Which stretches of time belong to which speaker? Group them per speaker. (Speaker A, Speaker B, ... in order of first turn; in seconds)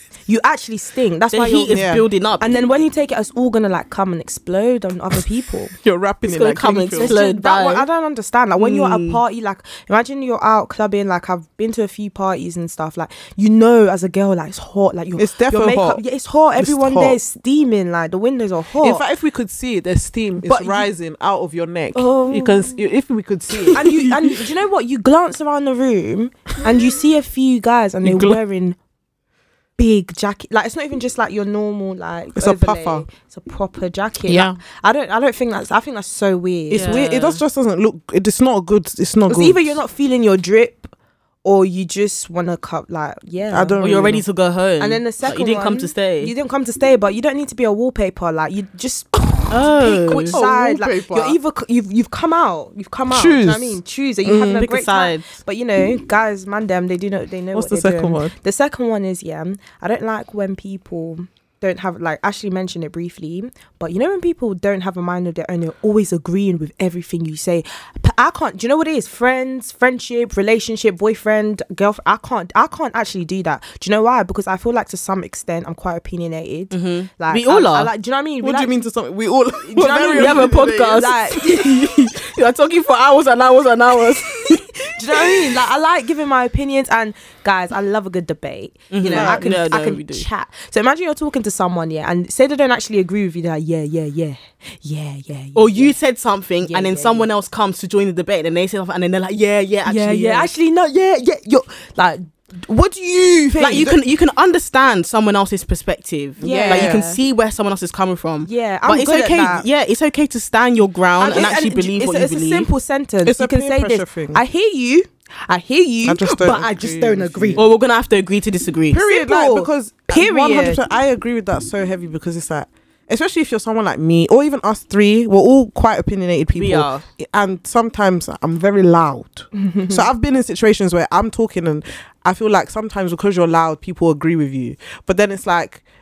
Speaker A: 0.3-5.8, 7.0-19.0, 20.4-20.9, 21.9-22.8, 23.7-28.8, 29.8-37.0, 39.3-40.9, 41.4-44.2, 44.8-78.7, 79.7-81.9, 84.4-96.0, 96.6-97.3, 99.8-104.0, 106.4-107.2, 108.5-109.7, 111.2-117.6, 119.0-120.8, 129.6-130.1
Speaker B: 1.3-2.6, 6.2-7.9, 8.6-9.2, 36.7-37.4, 43.8-46.3, 49.5-50.4, 54.6-55.3, 76.7-77.9, 80.2-84.6, 88.9-90.3, 95.5-100.5, 103.6-112.7, 117.6-119.0, 126.6-127.0
Speaker C: 1.7-2.0, 5.8-7.2, 15.2-16.0, 16.6-17.2, 18.8-24.4, 28.0-28.4, 32.4-33.1, 34.3-34.6, 36.7-39.8, 43.5-44.2, 50.3-51.4, 53.1-54.7, 57.5-58.3, 78.4-81.4, 89.0-89.7, 103.5-104.0, 106.4-107.0, 113.2-114.4, 116.0-117.6, 118.9-135.8